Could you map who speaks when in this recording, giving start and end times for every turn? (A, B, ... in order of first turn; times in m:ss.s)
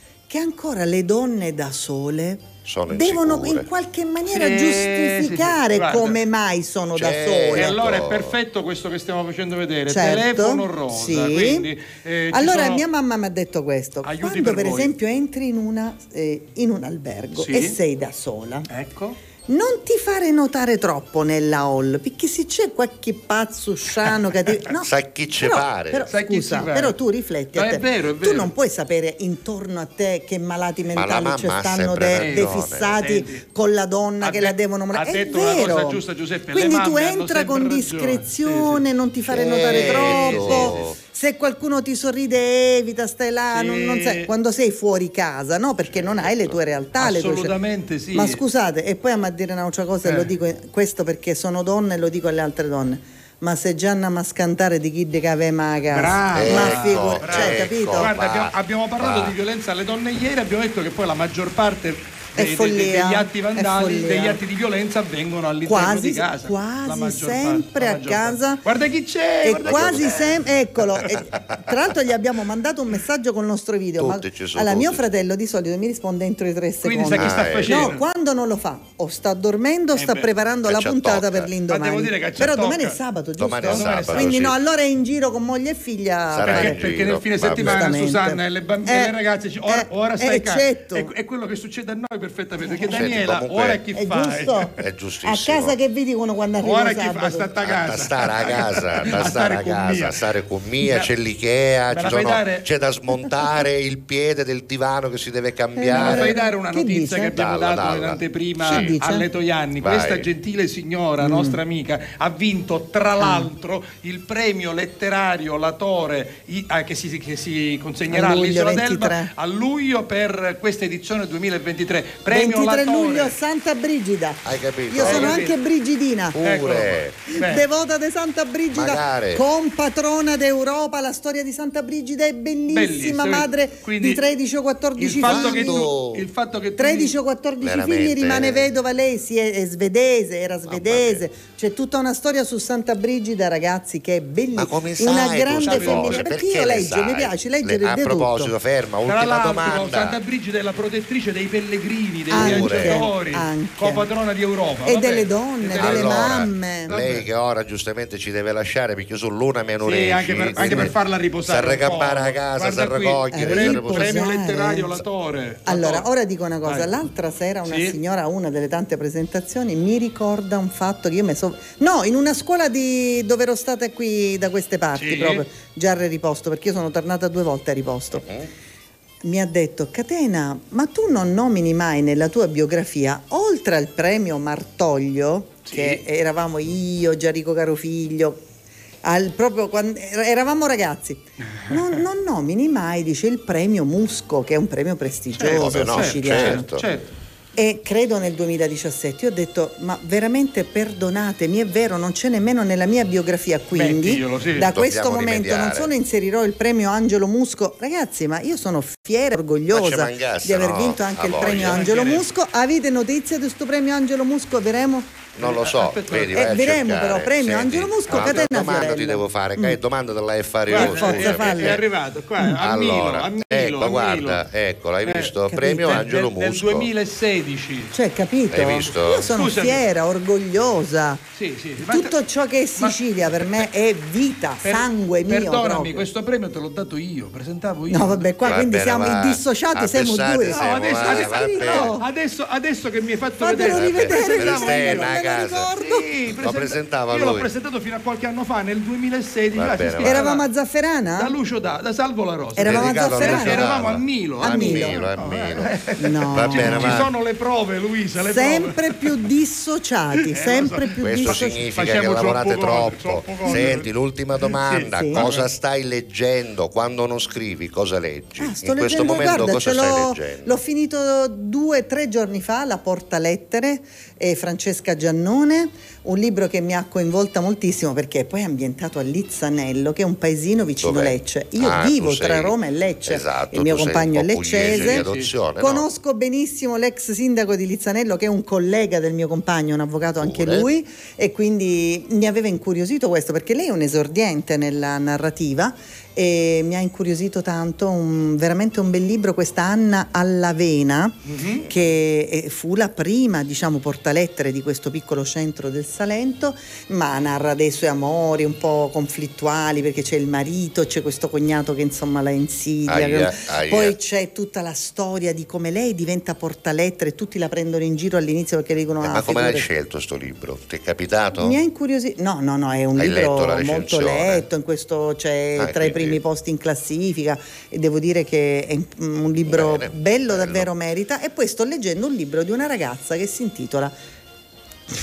0:00.3-0:07.8 A
0:02.6-0:03.6 B
0:04.3-0:06.2 C
0:07.0-0:08.4 B
0:07.5-0:12.8 C
0:09.9-0:11.7 A
0:12.3-0:18.7 A
0:14.0-0:14.9 C
0:17.3-0:17.8 C
0:18.7-0:19.2 C
0:19.5-0:47.5 A
0:24.8-0:26.1 B
0:26.1-0:27.0 C
0:27.5-0:28.5 C
0:30.9-0:32.9 B
0:32.2-0:33.4 C
0:34.2-0:38.8 C
0:39.3-0:41.0 B
0:39.5-0:40.9 C
0:43.5-0:44.3 C
0:45.9-0:46.5 B
0:47.0-0:48.4 C
0:48.1-0:58.1 A
0:50.0-0:50.3 C
0:55.9-1:11.2 C
0:56.3-0:59.3 B
1:02.3-1:04.4 A
1:05.6-1:08.6 A
1:09.4-1:26.8 A
1:09.5-1:10.4 B
1:14.0-1:15.0 B
1:16.8-1:18.0 C
1:17.2-1:17.9 B
1:19.9-1:20.3 C
1:20.6-1:21.5 B
1:21.7-1:23.0 C
1:23.4-1:24.5 B
1:23.6-1:24.5 C
1:26.3-1:28.0 B
1:26.4-1:34.7 C
1:27.5-1:31.1 A
1:32.7-1:33.1 A
1:32.8-1:33.8 B
1:33.9-1:37.5 A
1:34.8-1:35.7 B
1:36.6-1:40.2 C
1:37.6-1:46.3 B
1:40.8-1:41.1 C
1:41.9-1:42.6 C
1:45.8-1:47.4 A
1:45.9-2:03.3 C
1:47.3-1:48.9 B
1:48.6-1:49.3 A
1:49.8-1:50.3 B
1:51.2-1:51.6 A
1:53.2-1:53.5 A
1:58.1-1:59.3 A
2:02.3-2:06.4 A
2:04.4-2:05.4 B
2:05.0-2:05.6 C
2:06.3-2:07.2 B
2:06.4-2:07.6 C
2:07.3-2:15.9 A
2:08.7-2:09.4 B
2:12.7-2:14.2 C
2:15.0-2:16.2 B
2:15.0-2:17.1 C
2:16.8-2:28.5 A
2:17.6-2:18.7 B
2:20.7-2:21.2 B
2:24.6-2:30.2 B
2:25.5-2:26.4 C
2:29.0-2:37.3 C
2:32.3-2:34.1 A
2:32.3-2:33.0 B
2:34.8-2:37.0 A
2:35.8-2:44.3 B
2:39.8-2:46.0 C
2:40.5-2:40.9 A
2:43.3-2:45.0 A
2:45.6-2:58.2 A
2:46.6-2:46.9 C
2:47.6-2:48.0 C
2:54.9-2:55.4 C
2:58.2-2:58.5 B
2:59.2-3:08.4 A
3:05.6-3:06.0 C
3:09.0-3:16.7 A
3:15.4-3:17.1 C
3:15.4-3:16.8 B
3:17.6-3:35.3 A
3:23.7-3:24.7 C
3:24.6-3:25.9 B
3:29.7-3:31.9 B
3:31.4-3:32.3 C
3:35.3-3:41.8 B
3:35.4-3:36.7 C
3:36.3-3:39.8 A
3:38.1-3:39.1 C
3:40.7-3:41.8 A
3:40.7-3:44.4 C
3:42.6-3:46.9 B
3:45.0-3:47.9 C
3:45.5-3:46.1 A
3:47.9-3:51.2 A
3:48.5-3:49.3 B
3:48.8-3:49.8 C
3:51.3-3:52.1 C
3:51.8-3:56.1 A
3:52.8-3:53.7 C
3:54.6-3:58.3 C
3:57.9-4:02.1 A
3:58.4-4:02.0 B
4:00.5-4:05.2 C
4:03.4-4:06.1 A
4:03.6-4:05.7 B
4:05.8-4:10.4 C
4:06.4-4:07.5 B
4:09.5-4:10.2 B
4:10.0-4:11.4 A
4:11.2-4:19.0 C
4:12.5-4:13.9 A
4:12.6-4:15.8 B
4:14.4-4:15.1 A
4:16.0-4:17.1 A
4:16.3-4:17.1 B
4:18.2-4:22.0 A
4:20.3-4:23.9 C
4:21.0-4:30.5 B
4:23.4-4:23.8 A
4:24.4-4:25.5 C
4:24.8-4:25.3 A
4:28.4-4:45.1 A
4:40.8-4:42.5 B
4:43.1-4:45.8 B
4:44.6-4:45.4 C
4:45.6-5:19.7 A
4:50.2-4:50.7 B
5:01.2-5:01.7 C
5:12.9-5:13.9 B
5:19.0-5:21.6 B
5:21.3-5:33.9 A
5:23.0-5:24.4 B
5:25.6-5:26.2 B
5:29.4-5:30.7 B